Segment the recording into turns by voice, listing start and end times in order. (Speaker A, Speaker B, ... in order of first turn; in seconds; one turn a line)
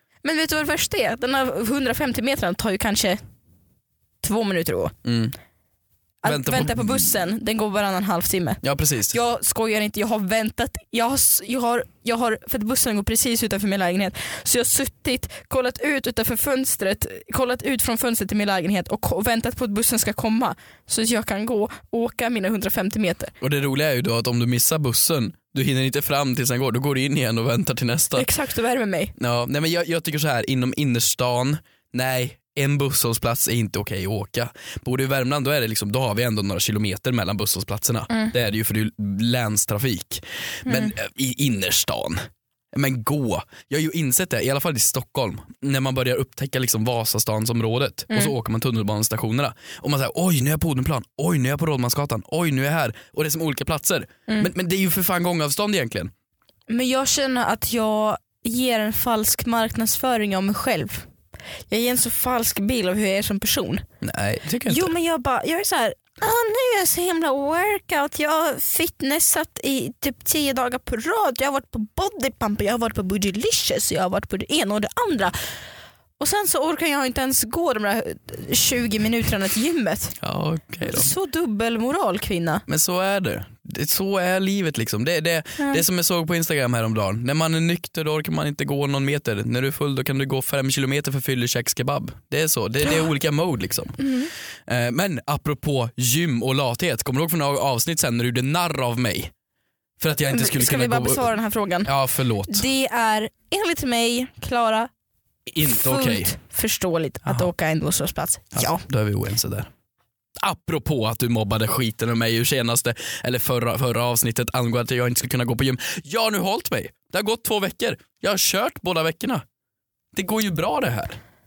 Speaker A: 0.2-3.2
Speaker A: 4.2-5.0
Speaker B: 5.0-5.3
Speaker A: 6.2-8.6
Speaker B: 6.2-7.1
Speaker B: 8.6-9.2
Speaker A: 9.1-23.3
Speaker B: 23.4-28.3
Speaker A: 28.1-29.1
Speaker B: 29.2-56.1
Speaker A: 40.7-40.9
Speaker A: 56.7-61.1
Speaker A: 61.7-63.9
Speaker B: 64.0-64.9
Speaker A: 64.7-75.4
Speaker A: 76.2-80.2
Speaker B: 80.2-81.1
Speaker A: 80.9-82.7
Speaker B: 82.7-94.1
Speaker A: 85.6-85.8
Speaker A: 94.0-94.3
Speaker B: 94.7-99.3
Speaker B: 100.0-101.3
Speaker A: 100.3-101.9
Speaker B: 101.8-102.7
Speaker A: 102.5-104.9
Speaker B: 105.5-106.3
Speaker A: 105.6-108.8
Speaker B: 108.5-109.7
Speaker B: 110.4-119.4
Speaker B: 120.1-121.2